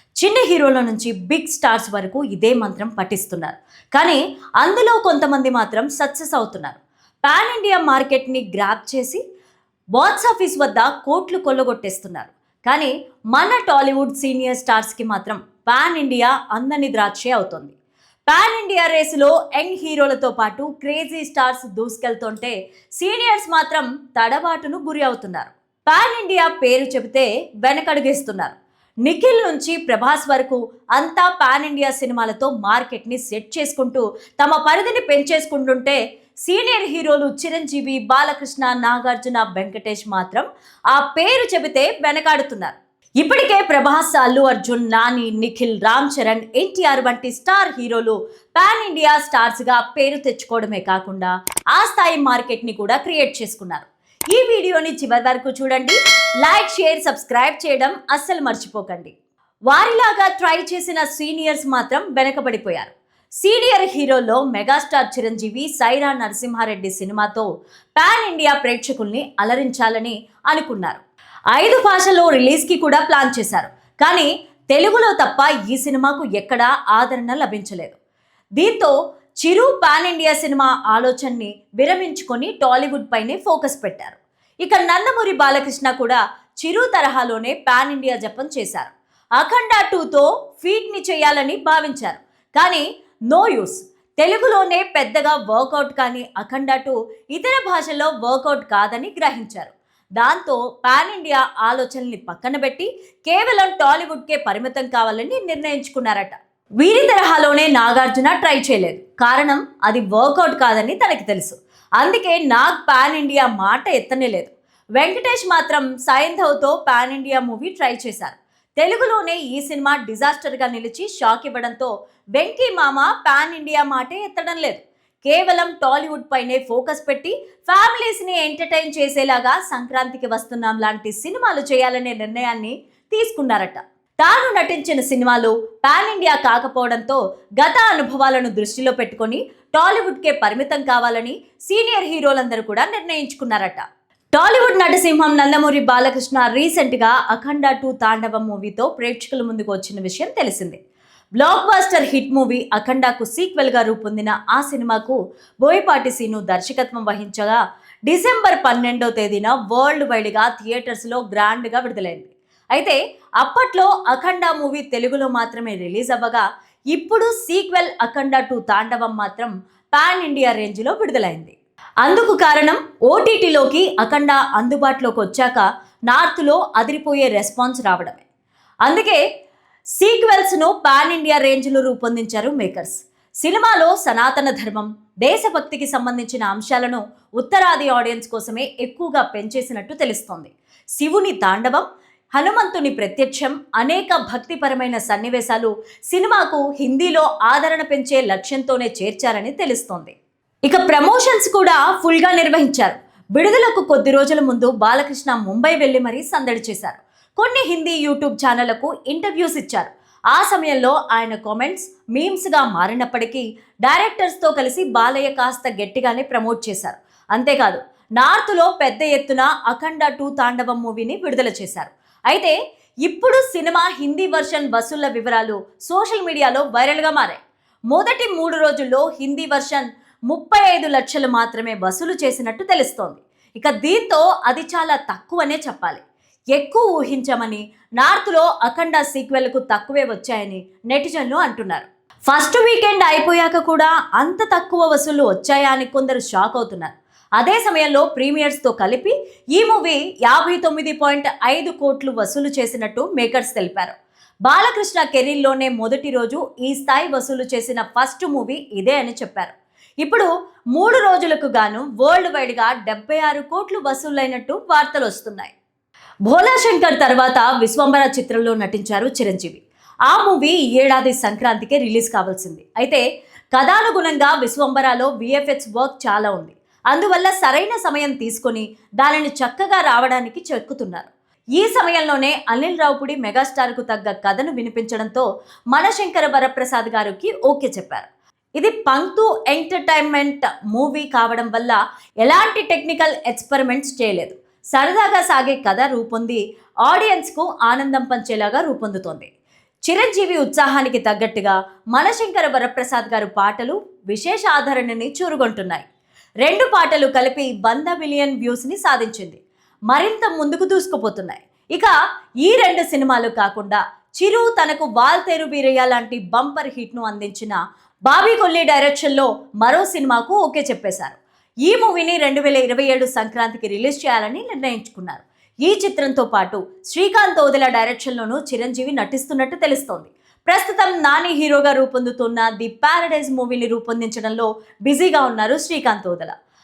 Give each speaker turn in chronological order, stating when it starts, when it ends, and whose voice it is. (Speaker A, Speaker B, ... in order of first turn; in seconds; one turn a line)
Speaker A: 0.2-9.2
Speaker A: 10.0-17.7
Speaker A: 18.3-59.1
Speaker A: 59.7-71.0
Speaker A: 71.5-78.0
Speaker A: 78.6-150.8
Speaker A: 151.4-178.2
Speaker A: 178.9-179.2
Speaker A: 180.0-236.0
Speaker A: 236.6-253.9
Speaker A: 254.5-265.5
Speaker A: 266.3-273.0
Speaker A: 273.5-299.3
Speaker A: 299.9-305.9
Speaker A: 306.4-311.9
Speaker A: 312.4-336.3